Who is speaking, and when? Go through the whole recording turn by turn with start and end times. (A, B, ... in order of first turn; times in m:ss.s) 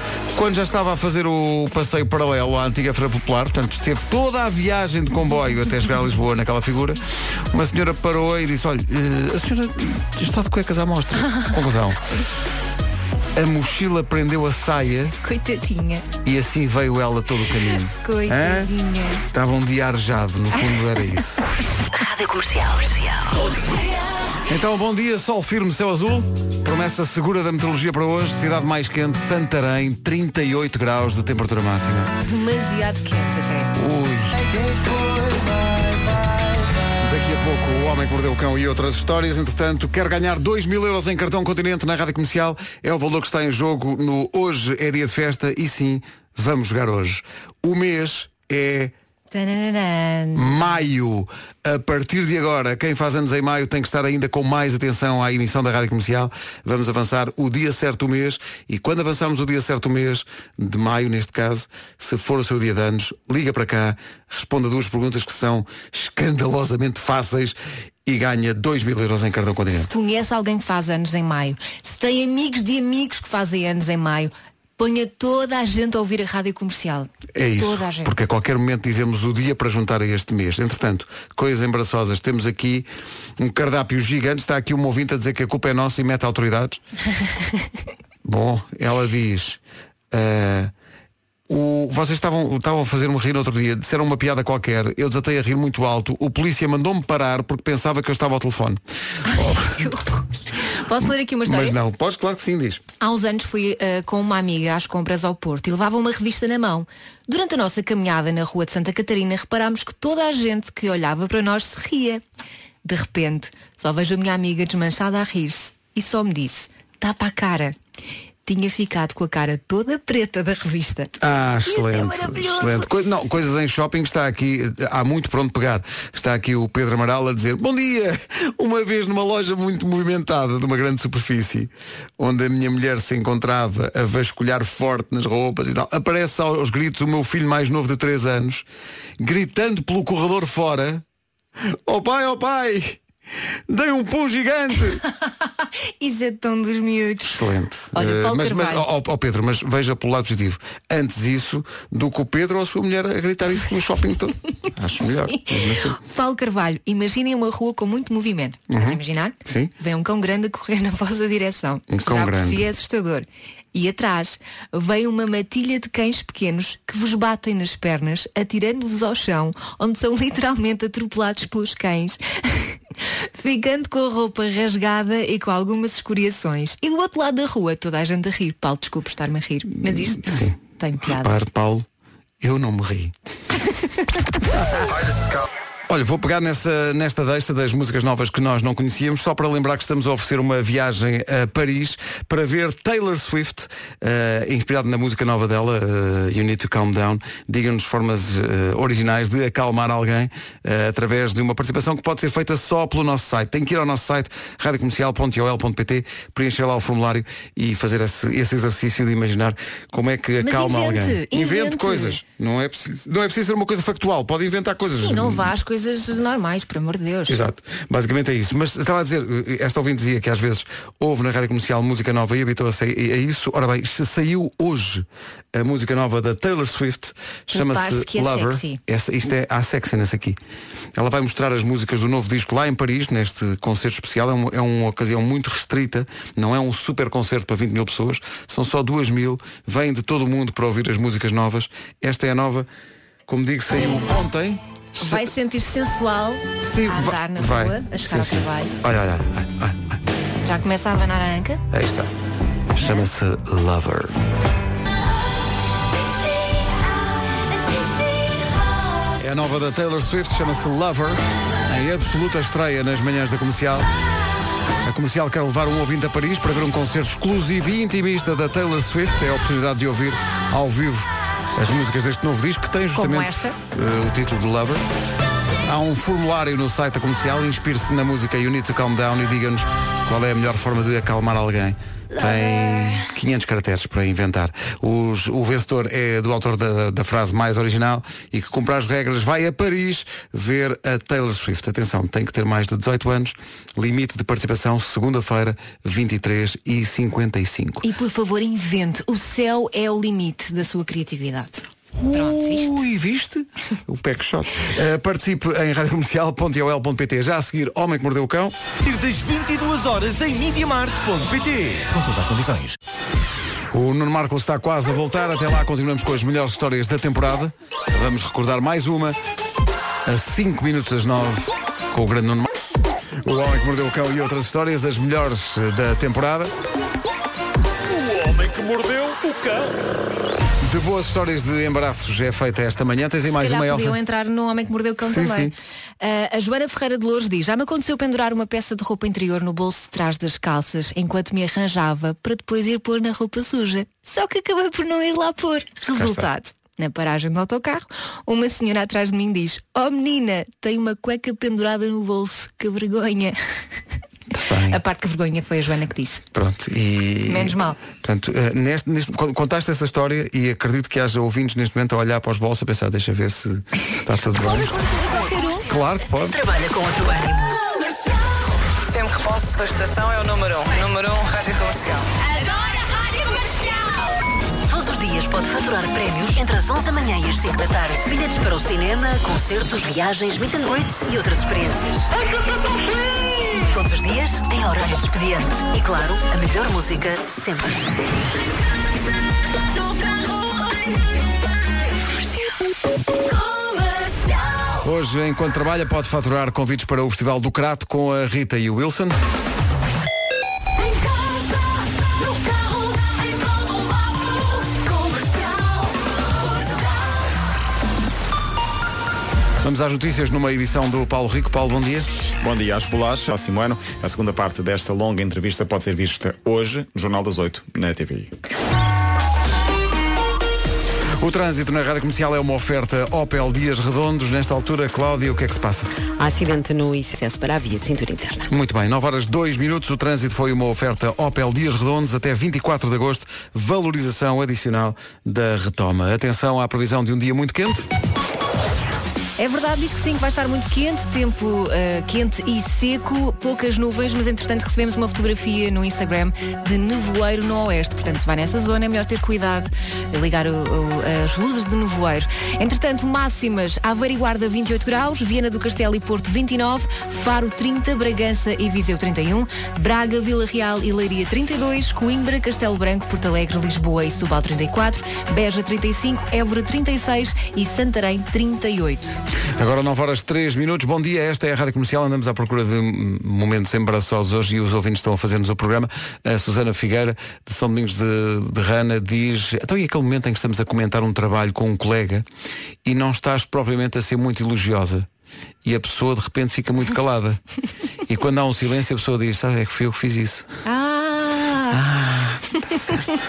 0:00.3-0:12.0 A
0:11.3-0:11.5 B
0:13.4-0:15.2 A
0:15.2-0:16.1 B
0:16.2-0:18.7 A
0:18.0-0:19.2 B
0:19.3-0:21.5 A
0:21.9-0:23.6 C
0:24.5-0:32.1 A
0:32.2-0:33.7 B
0:33.8-0:34.4 A
0:37.0-0:48.9 A
0:49.3-0:50.7 B
0:50.4-1:09.9 A
1:09.8-1:18.2 B
1:17.3-1:22.9 A
1:23.4-1:26.8 A
1:28.2-1:29.6 A
1:30.1-1:30.7 A
1:31.5-1:39.9 A
1:39.3-1:41.8 B
1:41.4-1:42.8 A
1:43.0-1:52.2 B
1:52.8-1:57.8 B
1:58.5-2:01.1 B
2:01.2-2:18.6 A
2:01.6-2:02.9 B
2:19.2-2:21.0 A
2:21.6-2:23.0 A
2:23.7-2:25.0 A
2:26.0-2:27.4 B
2:27.2-2:36.0 A
2:27.9-2:28.9 B
2:35.3-2:52.8 B
2:38.7-2:39.7 A
2:41.9-2:42.7 A
2:53.4-3:01.4 B
2:59.8-3:01.9 A
3:02.4-3:03.1 A
3:04.5-3:05.0 A
3:05.9-3:35.5 A
3:30.4-3:32.2 B
3:34.8-3:37.4 B
3:37.3-3:50.4 A
3:47.5-3:48.8 B
3:51.0-4:02.7 A
4:03.3-4:05.3 A
4:05.0-4:08.8 B
4:06.6-4:10.0 A
4:10.4-4:11.6 B
4:11.7-4:12.1 A
4:12.7-4:14.2 A
4:19.2-4:23.9 A
4:24.8-4:34.8 A
4:33.0-4:33.6 B
4:35.6-4:57.8 A
4:57.8-5:02.8 B
5:01.9-5:08.6 A
5:08.8-5:12.8 D
5:13.7-5:19.2 A
5:20.1-5:22.5 A
5:23.2-5:26.5 A
5:27.8-5:29.7 A
5:30.6-5:34.0 A
5:33.3-5:53.4 B
5:35.0-5:35.5 A
5:45.9-5:46.3 A
5:54.3-5:54.8 A
5:54.7-5:56.2 B
5:56.3-6:04.8 A
5:57.3-5:57.8 B
6:04.4-6:05.6 B
6:05.6-6:06.4 A
6:06.3-6:07.6 C
6:08.8-6:12.1 E
6:14.7-6:22.1 C
6:23.6-6:27.8 C
6:34.8-6:39.2 A
6:49.6-6:52.1 A
6:52.4-6:58.3 F
7:01.2-7:05.9 A
7:06.2-7:08.5 G
7:08.5-7:17.9 A
7:19.4-7:49.2 B
7:49.6-8:02.3 A
8:02.8-8:05.1 A
8:05.6-8:07.4 A
8:08.0-8:10.5 A
8:10.7-8:11.8 B
8:11.7-8:13.0 A
8:12.8-8:13.0 B